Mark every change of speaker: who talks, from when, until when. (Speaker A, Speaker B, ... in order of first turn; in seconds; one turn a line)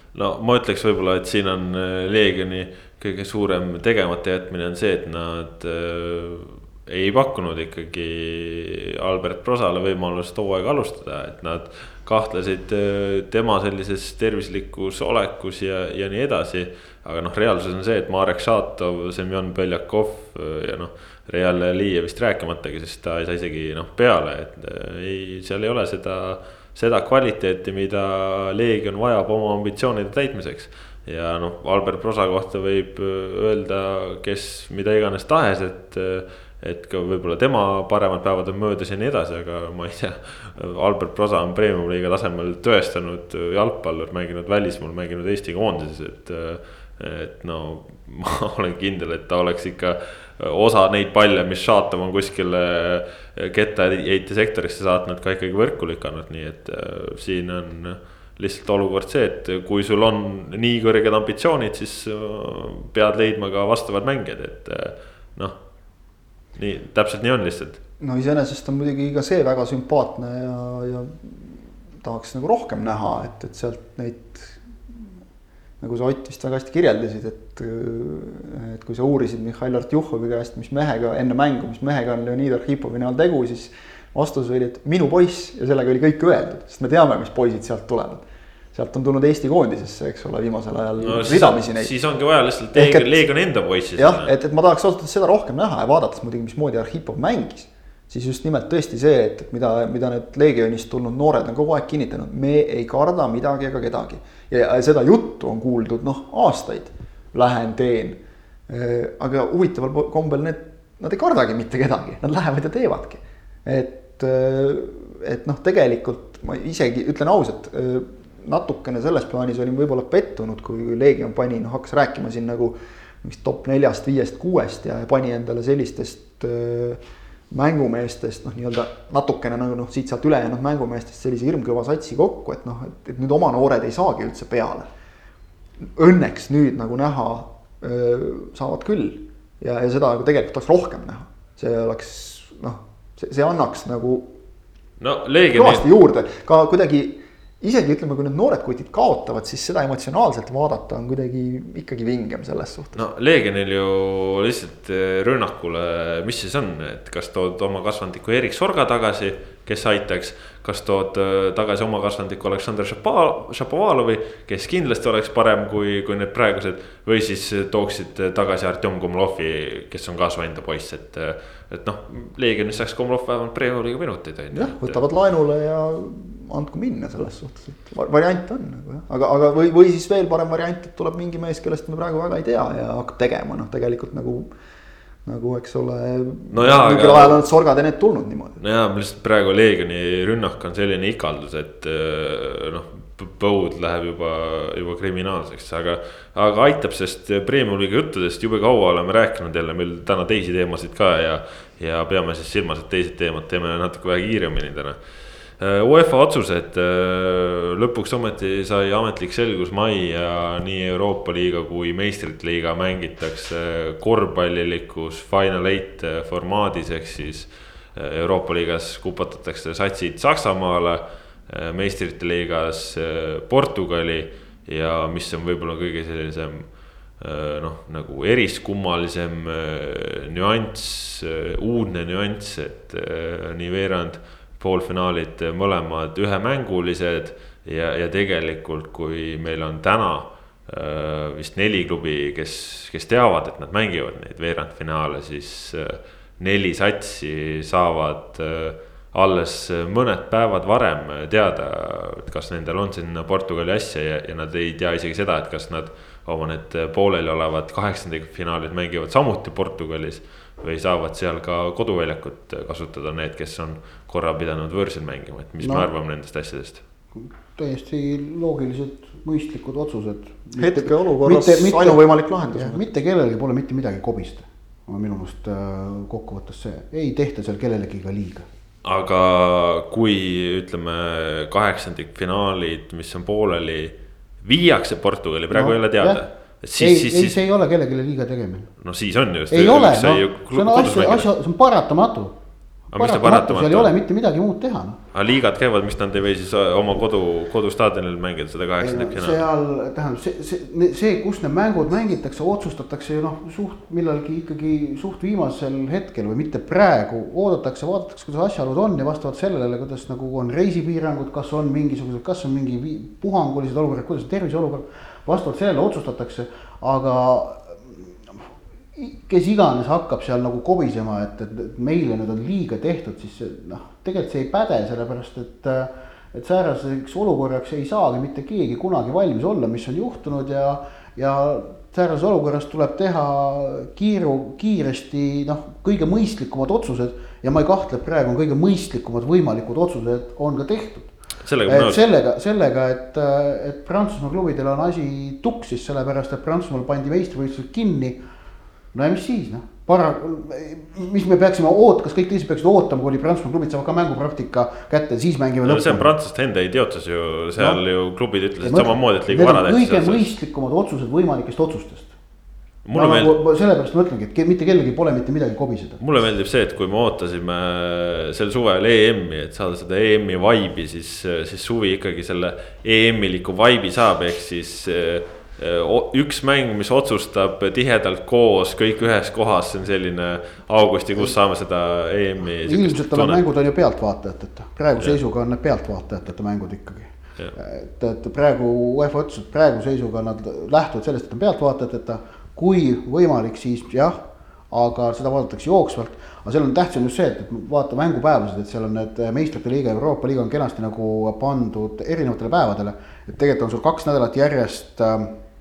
Speaker A: 0.1-65.5
Speaker A: 66.5-67.8
Speaker B: 68.0-74.6
Speaker B: 75.8-91.9
Speaker A: 91.0-94.3
Speaker B: 92.7-93.1
Speaker B: 94.0-134.9
Speaker B: 135.9-144.3
Speaker A: 145.0-145.8
Speaker B: 145.5-153.0
Speaker A: 152.9-175.0
Speaker B: 174.5-184.5
Speaker B: 185.2-188.6
Speaker A: 186.5-187.4
Speaker A: 188.6-205.0
Speaker A: 205.6-266.8
Speaker C: 265.6-265.9
Speaker C: 267.1-278.4
Speaker B: 270.6-272.9
Speaker A: 278.8-287.4
Speaker C: 285.5-286.2
Speaker C: 286.8-288.7
Speaker A: 288.8-291.3
Speaker C: 289.5-292.3
Speaker A: 292.9-293.9
Speaker C: 292.9-295.0
Speaker A: 295.1-299.4
Speaker C: 298.8-318.1
Speaker C: 318.9-341.1
Speaker A: 341.4-342.0
Speaker C: 341.6-348.2
Speaker C: 348.9-356.1
Speaker A: 355.6-360.3
Speaker C: 358.6-362.1
Speaker A: 362.8-363.3
Speaker C: 362.9-366.0
Speaker A: 366.0-383.4
Speaker C: 382.6-405.4